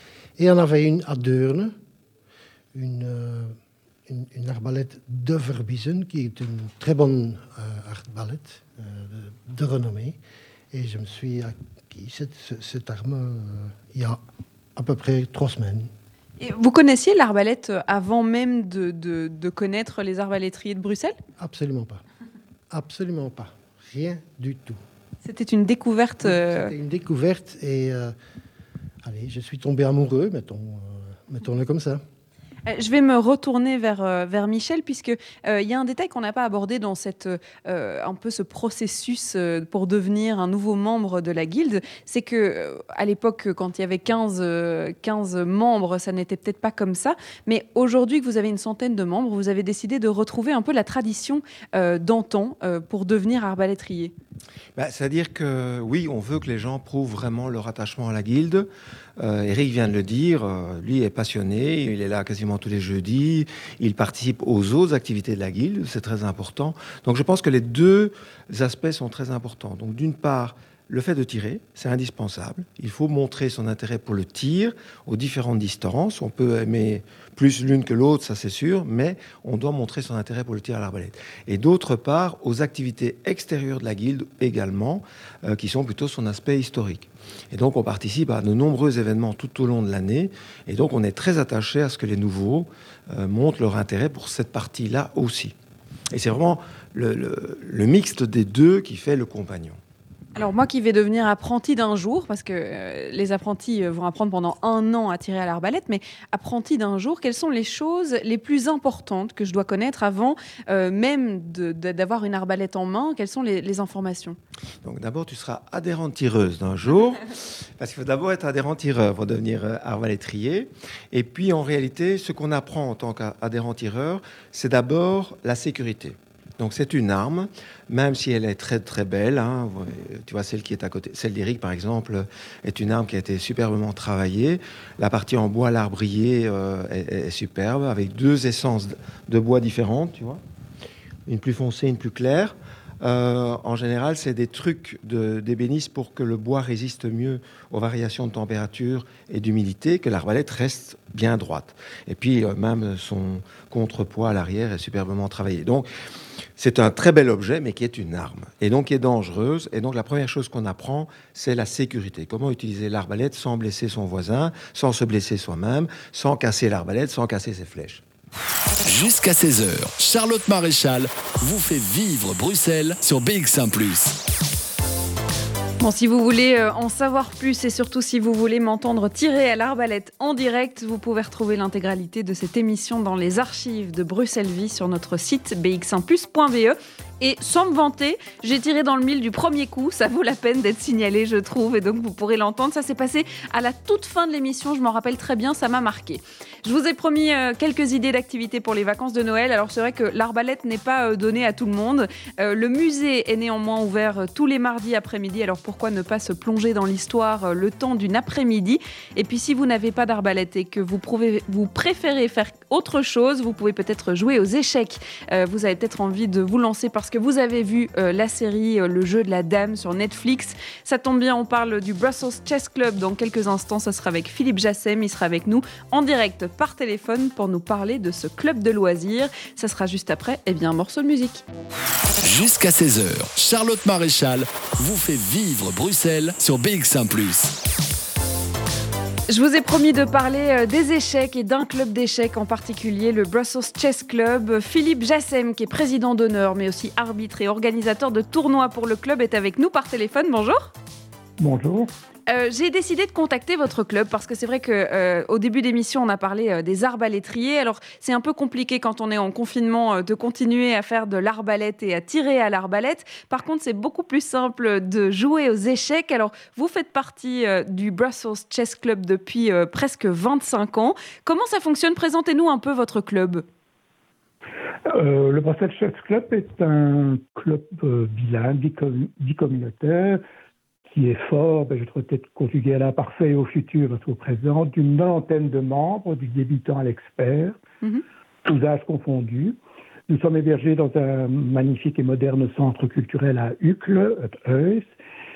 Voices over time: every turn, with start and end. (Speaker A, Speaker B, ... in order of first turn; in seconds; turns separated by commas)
Speaker A: 0.4-1.8, Speaker A: 2.7-3.6, Speaker A: 4.1-10.2, Speaker A: 10.7-14.2, Speaker A: 14.8-15.9, Speaker B: 16.4-21.1, Speaker A: 21.4-22.0, Speaker A: 22.7-24.8, Speaker B: 25.2-26.7, Speaker A: 26.2-28.1, Speaker A: 29.0-32.0, Speaker B: 32.6-54.1, Speaker C: 54.8-95.5, Speaker C: 96.1-99.8, Speaker B: 100.4-114.4, Speaker C: 114.8-140.4, Speaker C: 141.3-155.9, Speaker C: 156.6-168.0, Speaker D: 168.8-174.1, Speaker B: 175.8-231.4, Speaker D: 232.2-237.5, Speaker B: 239.3-250.7, Speaker E: 251.4-251.9, Speaker B: 252.3-273.4, Speaker E: 274.9-280.2, Speaker E: 280.9-287.6, Speaker E: 288.4-289.6, Speaker E: 290.1-294.9